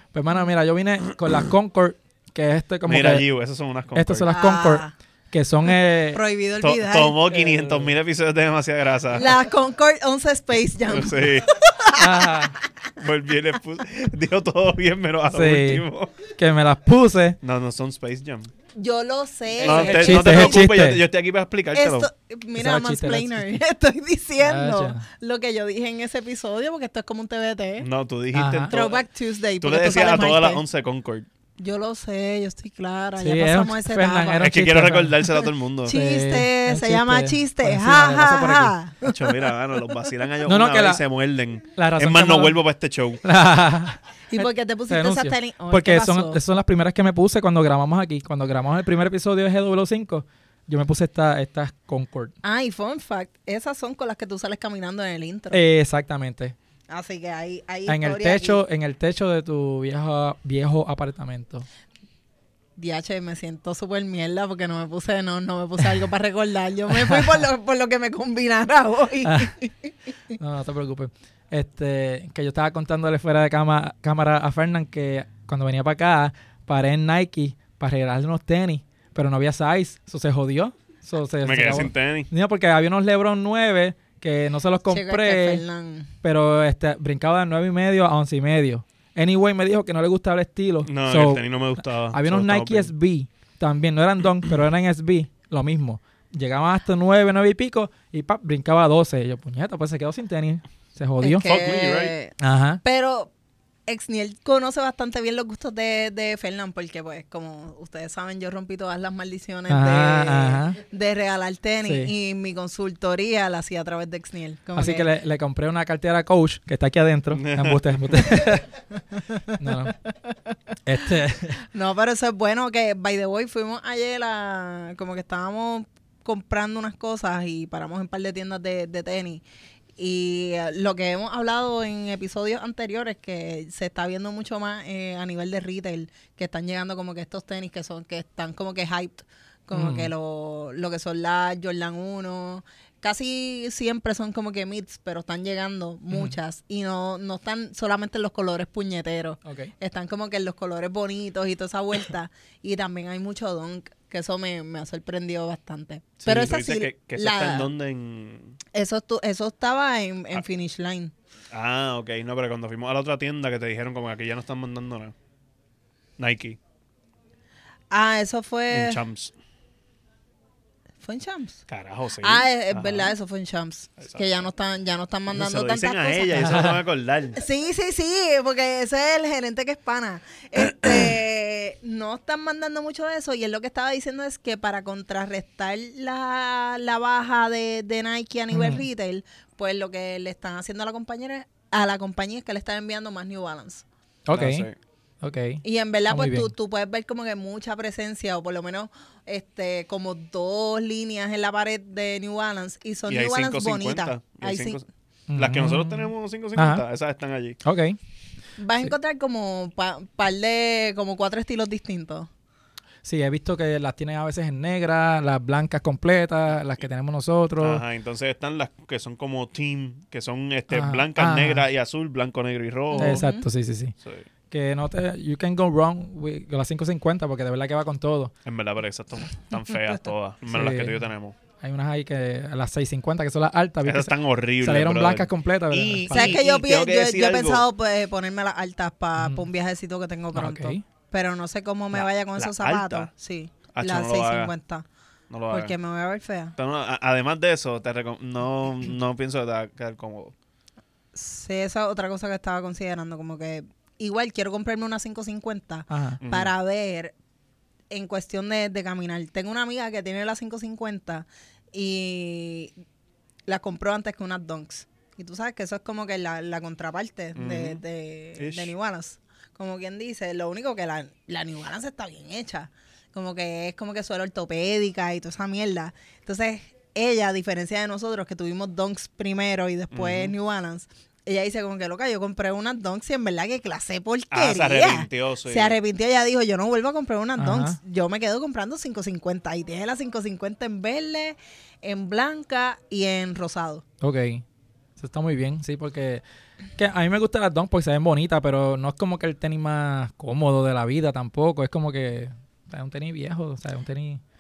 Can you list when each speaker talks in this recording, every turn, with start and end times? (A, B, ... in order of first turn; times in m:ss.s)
0:00.1-0:03.2 A
0:02.9-0:04.3 B
0:03.9-0:06.2 A
0:04.3-0:04.9 C
0:06.1-0:07.4 C
0:06.6-0:09.3 B
0:07.3-0:07.9 A
0:09.1-0:12.6 C
0:10.9-0:11.5 B
0:12.0-0:12.5 A
0:13.0-0:16.2 B
0:15.3-0:17.4 A
0:17.4-0:18.5 B
0:18.8-0:20.7 C
0:19.6-0:22.1 B
0:19.6-0:21.0 A
0:21.7-0:27.9 C
0:22.6-0:23.6 A
0:24.4-0:25.0 A
0:27.8-0:29.0 B
0:28.3-0:28.7 A
0:28.7-0:30.6 C
0:29.6-0:31.3 B
0:31.6-0:34.5 C
0:33.2-0:35.4 A
0:34.4-0:36.0 B
0:35.8-0:39.5 C
0:35.9-0:38.8 A
0:39.0-0:43.2 B
0:40.4-0:41.0 A
0:41.8-0:42.6 A
0:43.2-0:52.3 A
0:44.3-0:46.4 C
0:52.4-0:55.6 C
0:55.5-0:56.6 A
0:56.9-0:58.6 C
0:57.9-1:01.7 A
1:02.8-1:09.9 C
1:06.9-1:07.4 A
1:09.2-1:09.5 A
1:10.4-1:25.6 A
1:21.4-1:22.3 B
1:24.9-1:26.1 C
1:26.2-1:31.4 A
1:30.9-1:32.9 B
1:32.1-1:41.5 A
1:41.2-1:43.3 C
1:41.4-1:42.1 B
1:42.4-1:42.8 A
1:43.9-1:55.1 C
1:49.7-1:50.8 A
1:51.8-1:52.1 A
1:54.8-1:58.7 A
1:57.3-1:58.4 B
1:59.3-2:00.6 C
1:59.6-1:59.9 A
2:00.9-2:01.6 A
2:01.6-2:09.4 C
2:10.0-2:37.7 C
2:19.7-2:20.1 A
2:29.4-2:29.7 A
2:36.2-2:38.6 B
2:38.7-2:41.1 C
2:41.5-2:45.1 B
2:46.2-2:46.6 B
2:47.9-2:49.0 C
2:48.7-2:49.3 B
2:51.0-2:51.6 C
2:51.7-2:53.1 B
2:52.2-2:56.8 C
2:55.3-2:57.4 B
2:56.4-2:56.8 A
2:57.4-3:13.8 C
3:08.5-3:08.8 A
3:14.3-3:14.7 A
3:14.3-3:14.8 B
3:15.2-3:16.5 A
3:15.6-3:24.8 C
3:23.1-3:24.8 B
3:25.3-3:26.8 A
3:25.4-3:27.6 B
3:27.6-3:28.0 A
3:28.6-3:32.3 C
3:33.0-3:37.8 A
3:37.6-3:43.2 B
3:40.7-3:41.6 A
3:42.9-3:43.5 C
3:43.0-3:44.0 A
3:44.5-3:48.3 A
3:48.4-3:51.4 B
3:50.5-3:51.0 A
3:51.6-3:56.4 A
3:53.8-3:57.6 B
3:56.1-4:04.8 C
3:59.2-3:59.4 A
4:00.3-4:00.8 A
4:01.9-4:03.1 B
4:03.7-4:04.5 B
4:05.3-4:05.8 B
4:05.5-4:06.6 C
4:06.6-4:10.3 B
4:11.1-4:17.2 C
4:15.9-4:16.2 A
4:16.2-4:16.5 B
4:17.9-4:22.7 C
4:23.5-4:53.8 C
4:27.4-4:27.8 B
4:28.4-4:28.7 B
4:39.9-4:40.3 B
4:44.3-4:45.8 B
4:47.4-4:47.8 A
4:54.0-4:54.4 A
4:55.0-4:56.2 A
4:56.8-5:04.2 A